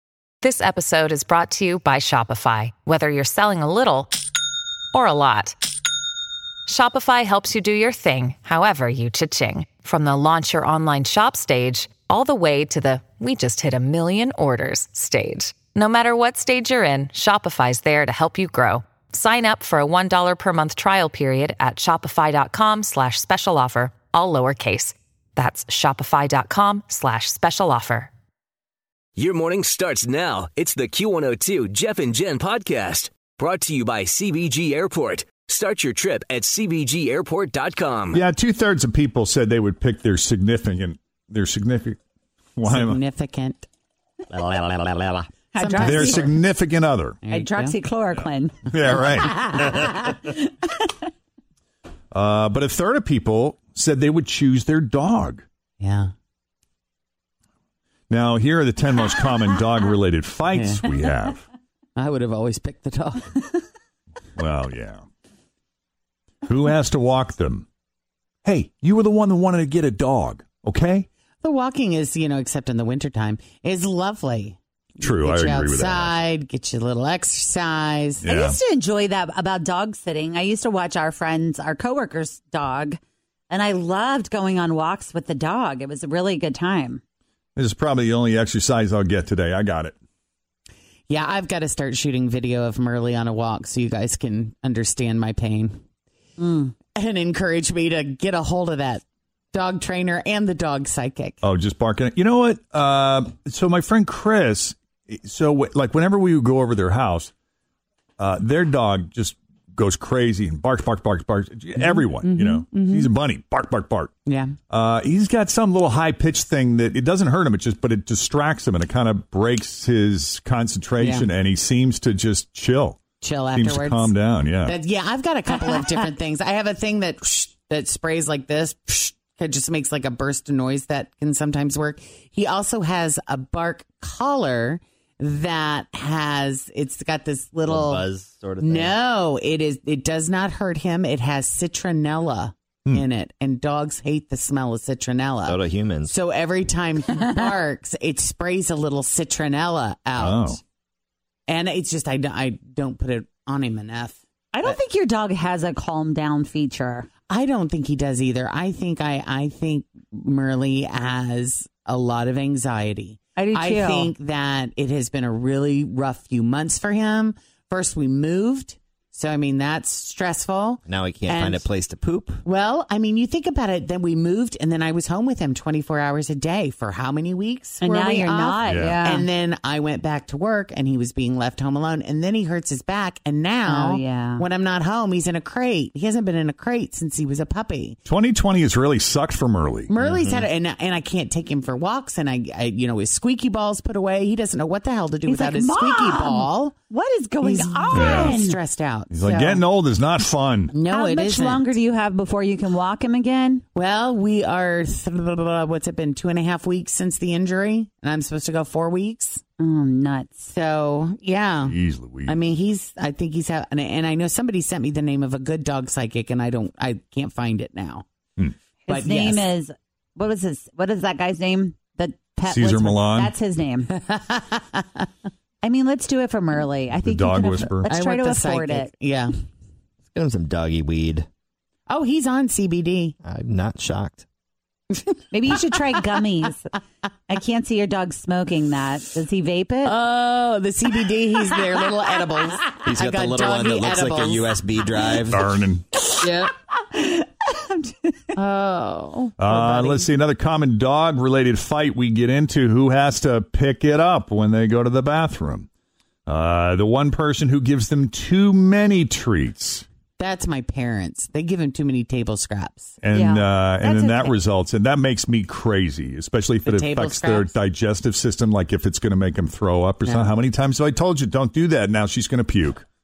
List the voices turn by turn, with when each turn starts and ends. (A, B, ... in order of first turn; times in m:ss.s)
0:00.4-0:04.1 A
0:04.9-0:05.6 A
0:06.7-0:28.1 A
0:29.2-0:38.2 B
0:38.1-0:42.0 C
0:42.6-0:43.0 C
0:42.6-0:43.6 D
0:44.3-0:45.3 E
0:45.5-0:46.3 F
0:45.6-0:46.3 D
0:45.8-0:47.2 C
0:47.2-0:47.8 D
0:47.3-0:50.5 F
0:48.2-0:49.4 C
0:52.1-0:55.4 C
0:55.8-0:56.1 D
0:58.1-1:01.4 C
1:00.5-1:00.9 D
1:02.0-1:03.3 D
1:04.4-1:05.0 C
1:06.5-1:07.7 C
1:08.4-1:11.1 C
1:11.4-1:18.2 D
1:15.0-1:16.2 C
1:18.2-1:23.0 F
1:18.2-1:18.6 C
1:23.5-1:27.0 F
1:27.6-1:29.9 C
1:31.1-1:35.8 D
1:36.4-1:36.7 F
1:36.9-1:41.4 D
1:41.4-1:47.3 C
1:48.2-1:54.1 C
1:51.8-1:53.1 D
1:54.2-1:54.6 D
1:54.7-2:03.0 C
2:01.0-2:01.3 D
2:03.2-2:18.1 D
2:03.5-2:04.8 C
2:17.7-2:19.0 E
2:18.6-2:30.6 D
2:25.5-2:26.2 E
2:30.2-2:30.6 C
2:31.5-2:34.8 D
2:34.5-2:37.1 F
2:37.3-2:51.7 D
2:43.4-2:44.1 F
2:50.9-2:52.4 E
2:52.4-3:08.0 D
2:57.8-2:59.3 F
2:58.7-2:59.0 C
3:03.7-3:04.4 F
3:08.1-3:09.9 C
3:09.9-3:16.8 D
3:10.0-3:10.5 E
3:15.2-3:18.6 F
3:17.4-3:19.7 D
3:17.9-3:18.4 C
3:19.1-3:20.7 C
3:20.7-3:21.7 D
3:20.9-3:23.6 F
3:23.8-3:29.4 D
3:29.6-3:30.5 F
3:30.5-3:38.0 D
3:31.7-3:32.4 C
3:38.9-3:43.9 F
3:38.9-3:39.5 D
3:42.5-3:43.3 C
3:44.1-3:44.8 D
3:45.6-3:48.9 F
3:47.0-3:47.9 C
3:47.8-3:49.4 D
3:50.1-3:51.3 E
3:51.9-3:53.2 D
3:53.2-3:54.2 E
3:55.3-3:56.7 F
3:57.3-3:59.9 F
3:59.8-4:04.5 D
4:02.8-4:05.5 E
4:05.3-4:05.8 C
4:06.2-4:06.5 D
4:06.9-4:08.2 F
4:08.4-4:10.1 D
4:09.4-4:15.7 C
4:16.3-4:19.8 C
4:20.2-4:23.0 D
4:23.0-4:32.8 C
4:23.1-4:24.4 F
4:26.6-4:27.5 D
4:30.0-4:30.3 D